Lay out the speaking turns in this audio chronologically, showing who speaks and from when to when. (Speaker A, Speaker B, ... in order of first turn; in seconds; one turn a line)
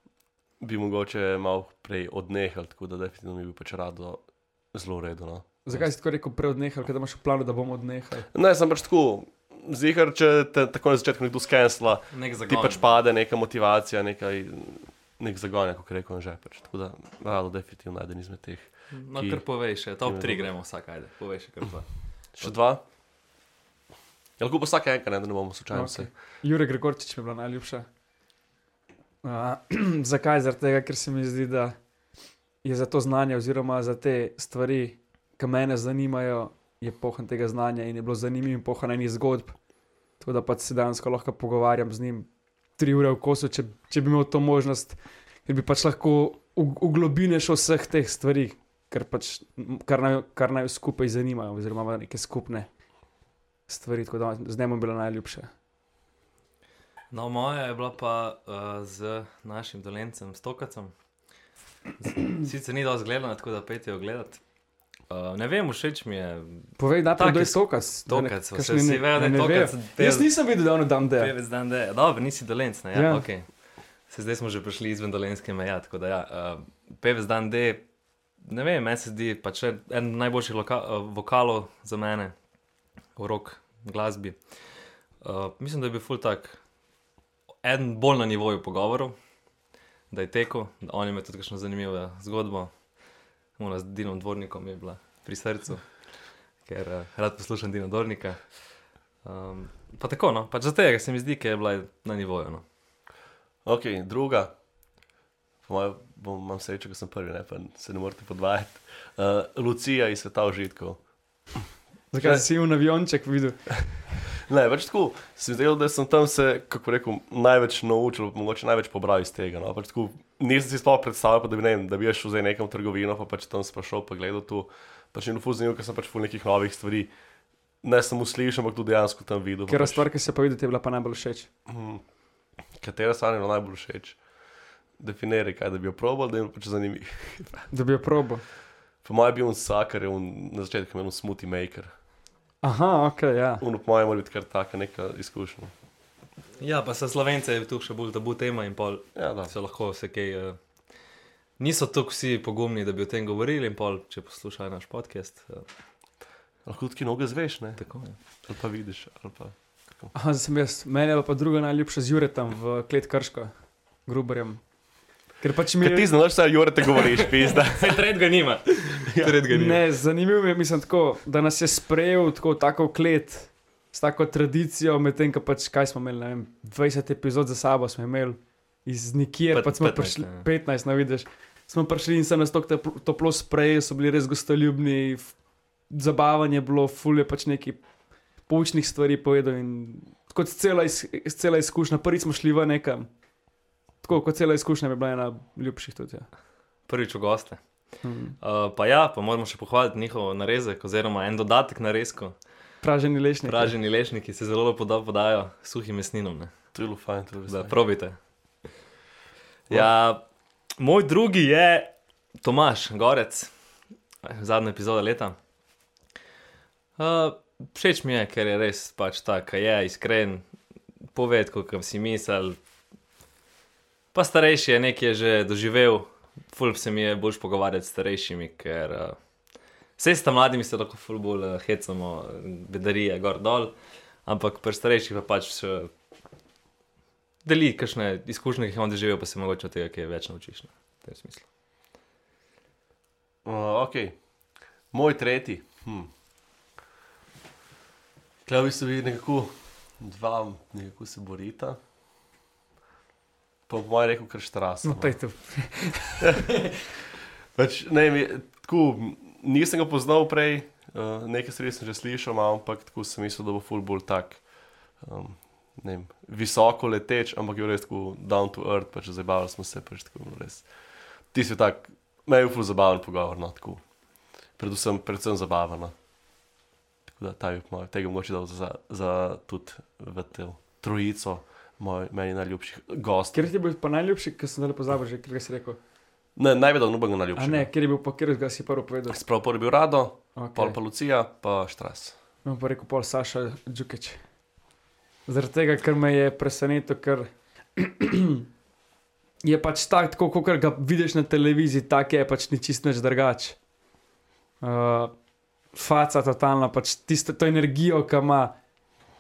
Speaker A: 0.6-5.8
Speaker B: 5.7-8.3
Speaker A: 8.3-19.4
Speaker C: 12.1-12.9
Speaker C: 18.9-21.9
Speaker A: 20.0-20.5
Speaker A: 22.4-22.8
Speaker A: 24.4-26.1
Speaker B: 25.7-27.9
Speaker B: 29.2-31.8
Speaker B: 32.6-39.5
Speaker B: 40.2-52.7
Speaker B: 53.7-55.5
Speaker C: 57.1-60.9
Speaker C: 62.0-64.4
Speaker C: 65.1-70.3
Speaker B: 66.8-71.3
Speaker C: 71.2-73.5
Speaker B: 72.9-73.2
Speaker C: 74.1-77.8
Speaker C: 78.4-82.3
Speaker C: 83.2-84.4
Speaker C: 85.2-86.6
Speaker C: 87.6-89.1
Speaker C: 90.1-92.7
Speaker C: 93.6-95.8
Speaker C: 96.7-98.4
Speaker C: 99.2-102.6
Speaker A: 103.6-104.5
Speaker A: 105.6-111.0
Speaker B: 112.1-113.7
Speaker A: 112.2-112.4
Speaker A: 114.3-127.1
Speaker A: 127.8-130.0
Speaker B: 129.7-131.5
Speaker A: 131.7-132.0
Speaker A: 132.8-134.2
Speaker A: 135.0-137.7
Speaker B: 137.7-138.4
Speaker A: 139.0-141.9
Speaker B: 142.6-143.6
Speaker A: 143.6-145.7
Speaker C: 146.6-150.6
Speaker A: 149.2-149.5
Speaker C: 151.6-155.6
Speaker A: 156.7-157.8
Speaker C: 157.8-158.2
Speaker A: 158.4-160.1
Speaker B: 160.1-163.5
Speaker B: 164.1-164.6
Speaker B: 165.4-166.1
Speaker A: 165.8-168.0
Speaker C: 166.9-169.8
Speaker A: 169.1-169.4
Speaker B: 169.5-185.3
Speaker C: 179.5-180.5
Speaker B: 185.9-187.8
Speaker B: 188.5-193.1
Speaker B: 194.0-196.3
Speaker C: 196.9-197.6
Speaker B: 198.0-198.3
Speaker C: 198.4-202.3
Speaker B: 202.8-203.7
Speaker C: 203.4-206.5
Speaker A: 206.7-207.7
Speaker C: 207.5-208.2
Speaker C: 209.7-210.2
Speaker C: 210.8-213.5
Speaker C: 214.2-215.3
Speaker C: 217.0-220.4
Speaker C: 221.1-222.6
Speaker C: 224.1-229.2
Speaker C: 230.0-233.7
Speaker C: 234.2-235.9
Speaker C: 237.4-241.4
Speaker A: 243.4-244.2
Speaker A: 244.9-246.1
Speaker A: 248.4-251.8
Speaker A: 253.7-255.1
Speaker B: 254.8-256.4
Speaker A: 256.2-256.6
Speaker A: 257.5-264.4
Speaker A: 265.0-270.6
Speaker A: 271.3-273.8
Speaker A: 274.6-275.9
Speaker A: 277.1-283.4
Speaker B: 283.3-285.8
Speaker A: 286.4-287.7
Speaker B: 287.4-289.2
Speaker A: 289.1-292.1
Speaker B: 290.4-290.8
Speaker B: 292.4-294.2
Speaker B: 295.3-298.4
Speaker B: 299.4-303.6
Speaker B: 304.6-305.1
Speaker B: 305.7-308.5